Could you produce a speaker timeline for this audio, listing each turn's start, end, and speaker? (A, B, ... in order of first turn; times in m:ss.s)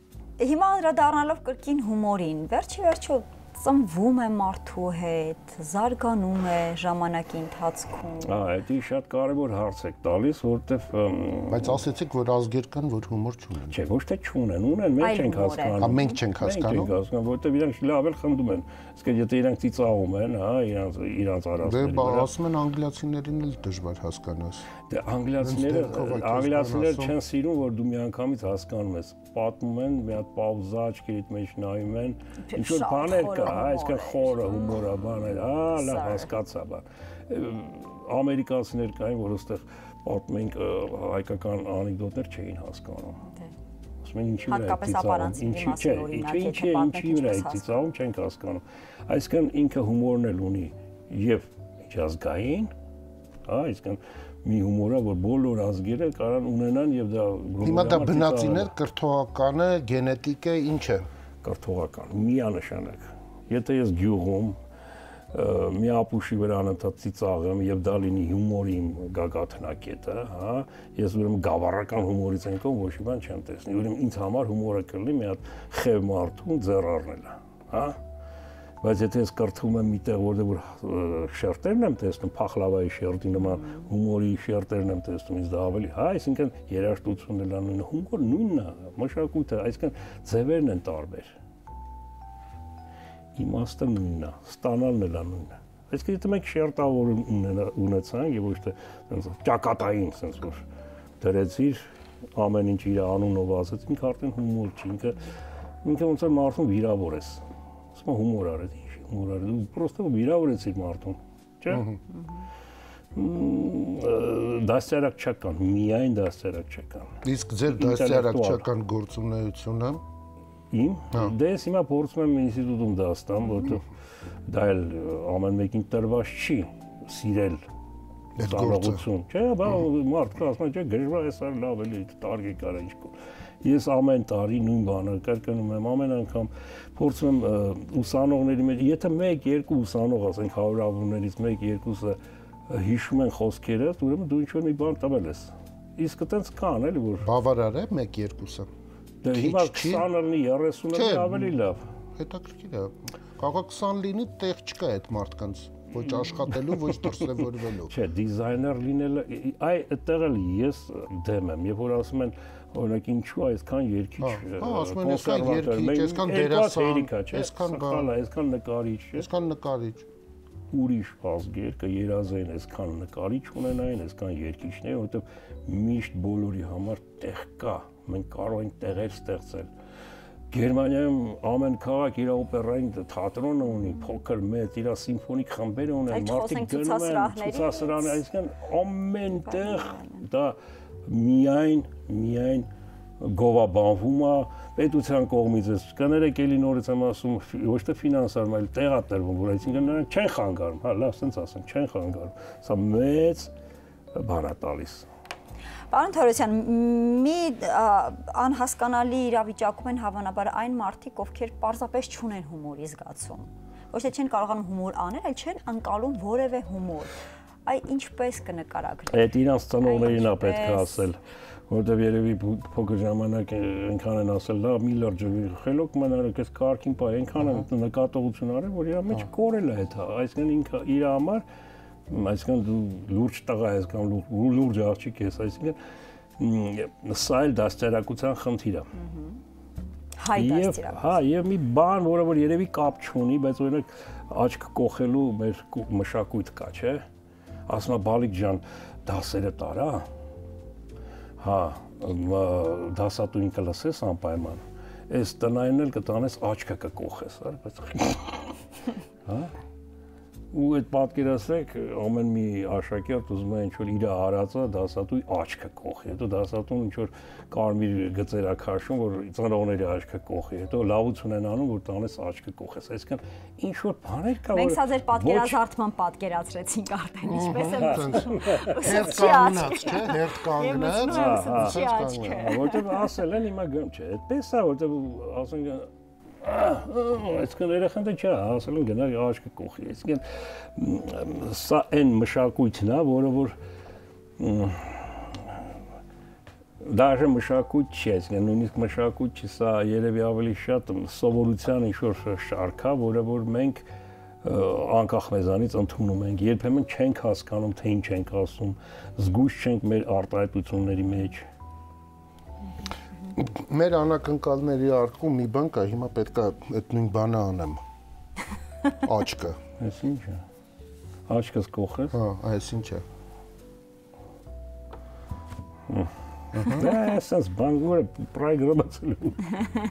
0:00.4-0:08.3 A
0:08.2-0:11.8 B
0:11.5-0:13.8 C
0:13.7-0:22.3 B
0:15.0-0:16.1 A
0:15.8-0:17.0 C
0:21.6-0:24.7 C
0:24.9-0:43.2 B
0:25.4-0:27.1 C
0:32.5-0:34.8 A
0:35.7-0:36.3 A
0:44.0-0:52.7 B
0:44.5-0:47.8 A
0:53.4-0:58.7 B
0:57.6-1:01.1 C
1:01.4-1:04.6 B
1:05.3-1:18.0 B
1:18.8-1:31.4 B
1:23.5-1:23.8 A
1:33.4-1:40.6 B
1:41.2-1:45.3 B
1:45.8-1:47.4 B
1:47.9-1:51.9 B
1:51.7-1:52.0 C
1:53.1-1:57.2 B
1:57.2-2:00.0 C
1:57.7-1:58.7 B
2:00.7-2:03.9 B
2:04.5-2:07.6 B
2:08.4-2:09.0 C
2:08.4-2:22.2 B
2:22.7-2:27.3 B
2:27.2-2:28.7 C
2:29.2-2:31.8 B
2:29.3-2:30.1 C
2:30.9-2:31.6 C
2:32.2-2:37.9 C
2:37.9-2:49.3 B
2:44.2-2:48.1 C
2:49.1-2:50.1 C
2:50.7-2:59.7 B
3:00.5-3:12.7 B
3:06.1-3:08.2 A
3:09.5-3:10.2 A
3:13.2-3:23.5 B
3:24.1-3:25.1 B
3:25.9-3:37.1 A
3:37.6-3:39.3 A
3:39.1-3:41.2 B
3:39.8-3:41.1 A
3:41.7-3:51.4 B
3:52.1-3:55.8 B
3:56.4-3:58.9 B
3:59.0-3:59.4 A
4:00.2-4:01.1 A
4:00.4-4:07.0 B
4:07.7-4:10.1 B
4:11.4-4:18.5 B
4:19.2-4:19.5 B
4:20.5-4:35.6 B
4:34.5-4:43.0 A
4:37.2-4:42.5 C
4:37.8-4:39.0 B
4:41.0-4:45.9 B
4:46.4-4:53.6 B
4:54.4-4:55.6 B
4:56.8-5:03.8 B
5:04.4-5:11.5 B
5:13.4-5:17.8 C
5:19.0-5:19.6 C
5:19.8-5:20.4 B
5:21.3-5:22.2 B
5:22.1-5:23.0 C
5:25.9-5:29.6 B
5:26.5-5:26.9 C